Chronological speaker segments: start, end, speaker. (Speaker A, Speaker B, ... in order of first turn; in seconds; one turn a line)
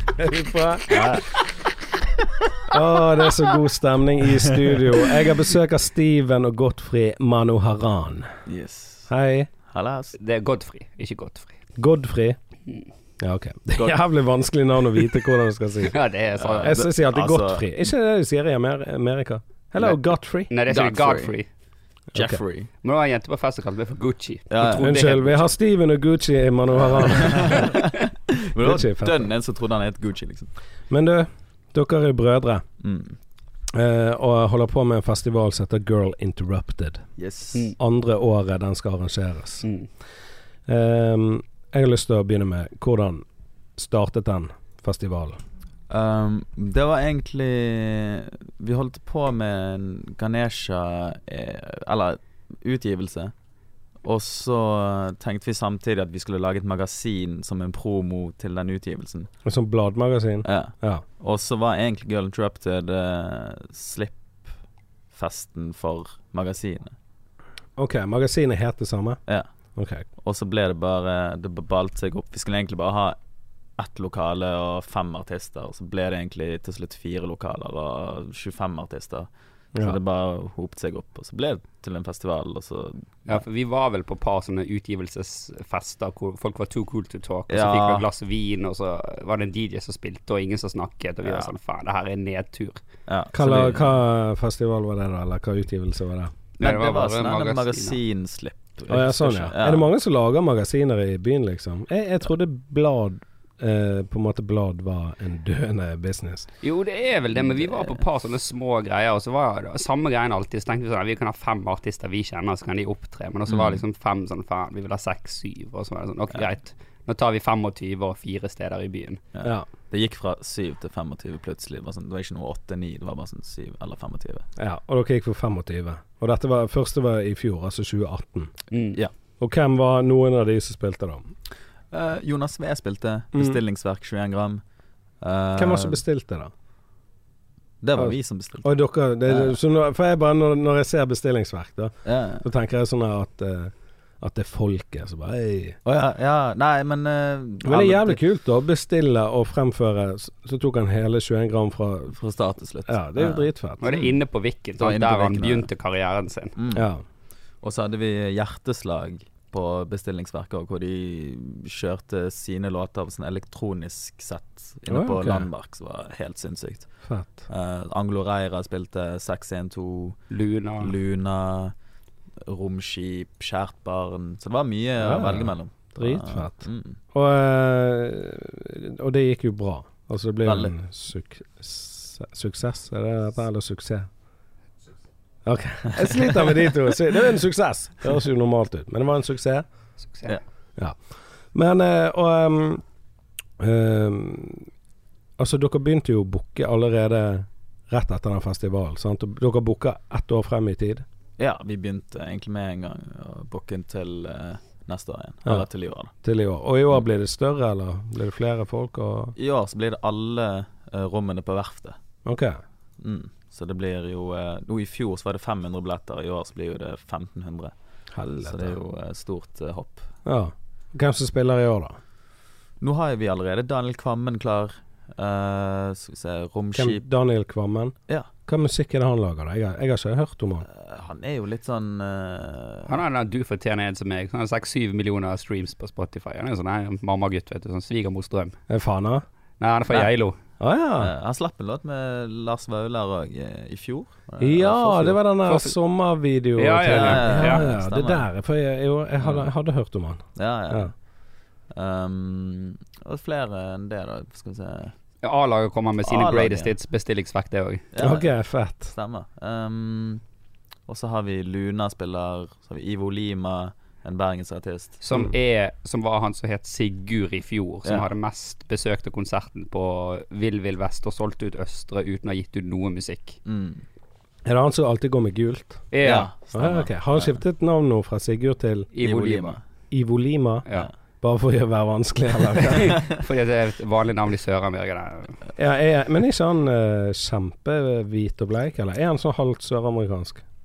Speaker A: 0.2-1.2
Speaker B: 0.9-1.4
Speaker A: 2.7-8.3
Speaker B: 8.5-9.1
Speaker A: 9.1-9.5
Speaker B: 9.7-10.2
Speaker C: 10.2-11.6
Speaker A: 11.8-12.4
Speaker A: 13.2-15.9
Speaker C: 15.9-16.7
Speaker B: 16.4-17.6
Speaker A: 16.6-20.5
Speaker C: 20.5-21.5
Speaker B: 20.7-21.3
Speaker A: 22.1-22.4
Speaker B: 22.1-22.7
Speaker C: 22.8-25.5
Speaker B: 24.5-24.9
Speaker A: 24.7-27.7
Speaker B: 27.0-30.5
Speaker A: 28.6-29.3
Speaker A: 30.9-32.6
Speaker B: 32.8-33.2
Speaker A: 33.7-37.0
Speaker B: 37.2-37.7
Speaker A: 37.8-39.6
Speaker A: 40.7-43.2
Speaker A: 43.8-45.4
Speaker B: 45.9-53.3
Speaker B: 54.0-59.3
Speaker A: 59.5-61.0
Speaker B: 60.5-64.5
Speaker B: 65.1-66.9
Speaker A: 67.8-69.2
Speaker A: 69.8-70.0
Speaker B: 70.2-73.2
Speaker B: 73.8-83.4
Speaker C: 83.3-92.8
Speaker B: 87.5-88.1
Speaker B: 91.2-91.5
Speaker B: 93.1-93.9
Speaker A: 93.3-96.3
Speaker B: 96.6-99.9
Speaker C: 96.6-98.0
Speaker A: 98.9-106.5
Speaker C: 106.6-119.2
Speaker B: 107.3-108.0
Speaker B: 113.5-113.8
Speaker B: 119.3-124.5
Speaker A: 124.6-128.5
Speaker C: 128.7-129.0
Speaker A: 129.4-131.3
Speaker B: 131.9-134.6
Speaker B: 135.2-136.0
Speaker A: 135.6-136.5
Speaker B: 137.8-139.6
Speaker A: 137.9-145.8
Speaker B: 142.0-142.4
Speaker B: 145.8-148.2
Speaker A: 147.6-152.2
Speaker B: 152.1-154.1
Speaker A: 152.8-153.8
Speaker C: 153.8-156.5
Speaker B: 154.8-155.7
Speaker B: 156.6-156.9
Speaker A: 156.7-157.0
Speaker B: 157.6-166.9
Speaker A: 164.9-165.5
Speaker A: 167.1-167.5
Speaker B: 167.5-170.2
Speaker C: 170.3-170.9
Speaker B: 170.8-171.7
Speaker B: 172.4-177.0
Speaker A: 175.0-184.1
Speaker B: 180.4-180.7
Speaker A: 185.4-189.6
Speaker C: 190.0-190.4
Speaker A: 191.5-192.8
Speaker A: 193.6-194.7
Speaker A: 195.4-201.0
Speaker B: 201.4-206.1
Speaker A: 206.2-209.3
Speaker B: 209.4-212.0
Speaker A: 212.2-212.6
Speaker B: 213.0-217.7
Speaker A: 218.1-218.8
Speaker B: 218.4-220.1
Speaker A: 220.2-222.0
Speaker B: 222.8-227.0
Speaker A: 226.8-230.7
Speaker B: 230.7-233.0
Speaker C: 232.9-238.6
Speaker A: 238.7-239.2
Speaker C: 239.6-240.4
Speaker A: 240.6-241.1
Speaker B: 241.0-245.2
Speaker A: 244.4-250.9
Speaker C: 245.5-245.7
Speaker C: 246.6-247.7
Speaker B: 246.9-248.3
Speaker B: 249.2-249.5
Speaker B: 250.3-250.9
Speaker B: 251.7-254.9
Speaker C: 255.2-257.8
Speaker B: 256.0-256.7
Speaker B: 257.9-258.3
Speaker A: 258.0-258.9
Speaker B: 258.9-260.2
Speaker B: 260.9-265.2
Speaker C: 265.0-273.4
Speaker B: 273.5-273.8
Speaker A: 274.4-275.9
Speaker C: 275.9-276.3
Speaker B: 276.0-277.3
Speaker A: 276.5-278.9
Speaker C: 278.9-279.6
Speaker B: 279.0-279.6
Speaker A: 279.9-280.6
Speaker A: 281.2-283.0
Speaker C: 282.8-285.4
Speaker A: 285.6-290.4